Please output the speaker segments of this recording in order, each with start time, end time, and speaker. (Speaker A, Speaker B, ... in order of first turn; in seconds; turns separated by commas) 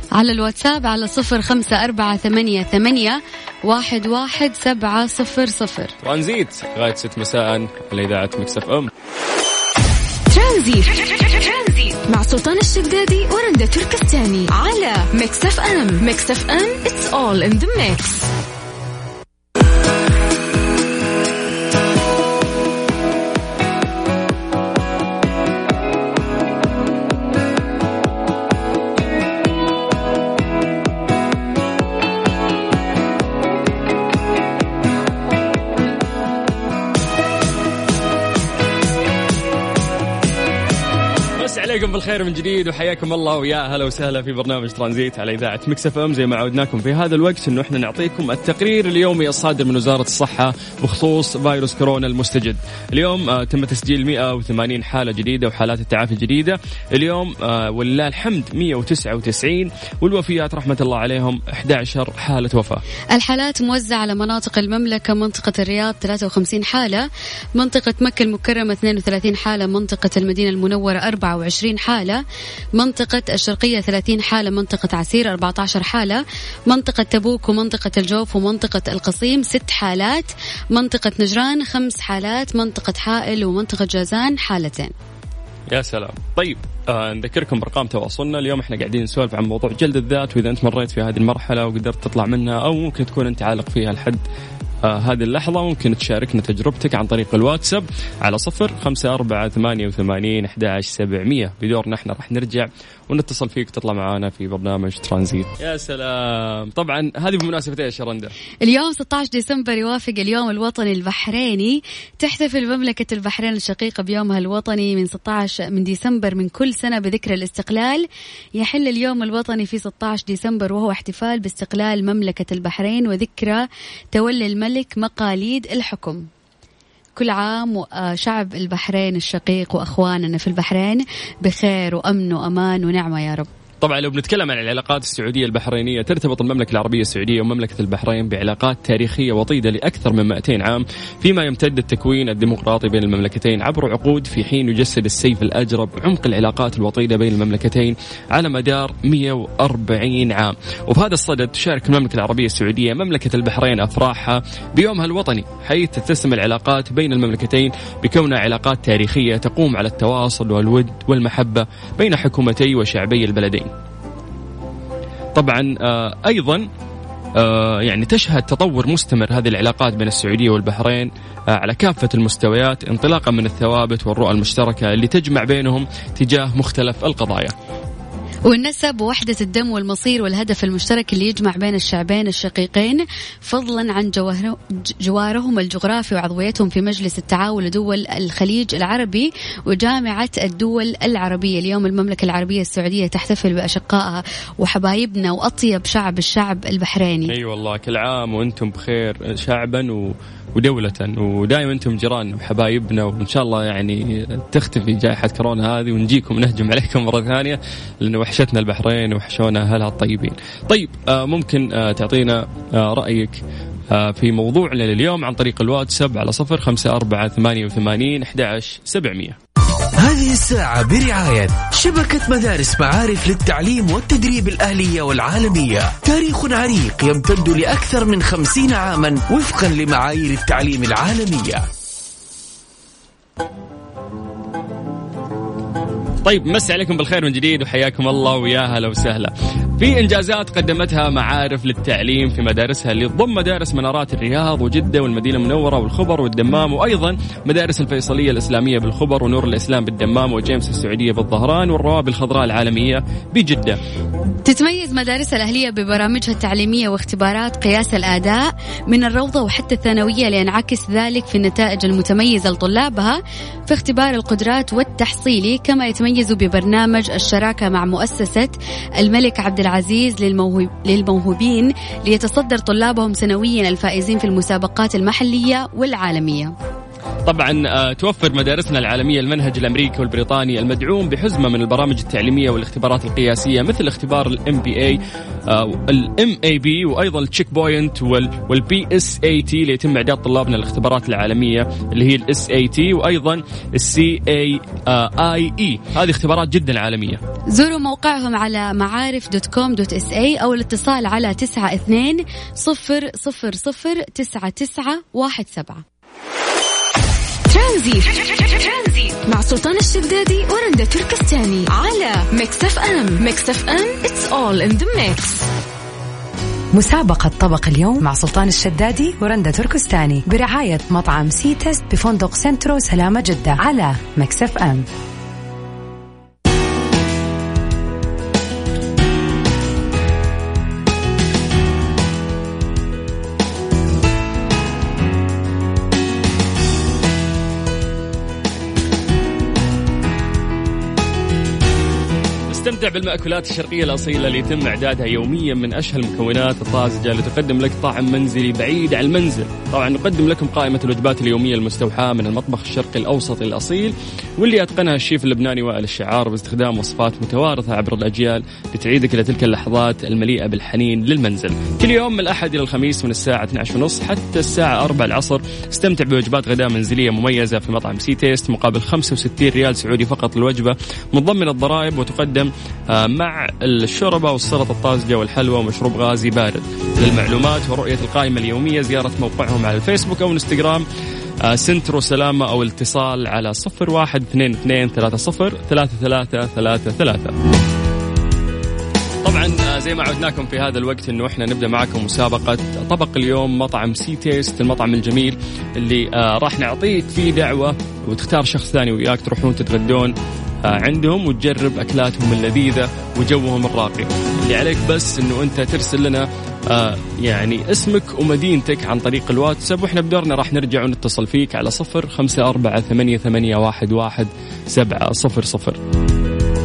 Speaker A: 0.1-5.9, Speaker B: 6.0-8.9, Speaker C: 10.3-18.3, Speaker B: 41.4-62.8, Speaker A: 63.1-72.2, Speaker A: 72.8-84.9, Speaker B: 85.7-94.2, Speaker B: 94.8-108.3, Speaker A: 108.6-118.0, Speaker A: 118.6-126.2, Speaker A: 127.2-133.5, Speaker B: 133.8-163.7, Speaker B: 165.3-166.7, Speaker B: 167.4-177.5, Speaker A: 178.5-197.3, Speaker B: 197.3-213.4, Speaker B: 213.9-219.4, Speaker D: 220.0-231.6, Speaker B: 236.2-253.8, Speaker A: 254.4-276.5, Speaker B: 277.2-297.2, Speaker A: 297.5-305.8, Speaker C: 307.5-315.4, Speaker E: 316.7-324.9, Speaker B: 342.5-380.8, Speaker B: 381.4-387.4, Speaker B: 389.2-400.1, Speaker B: 400.6-415.8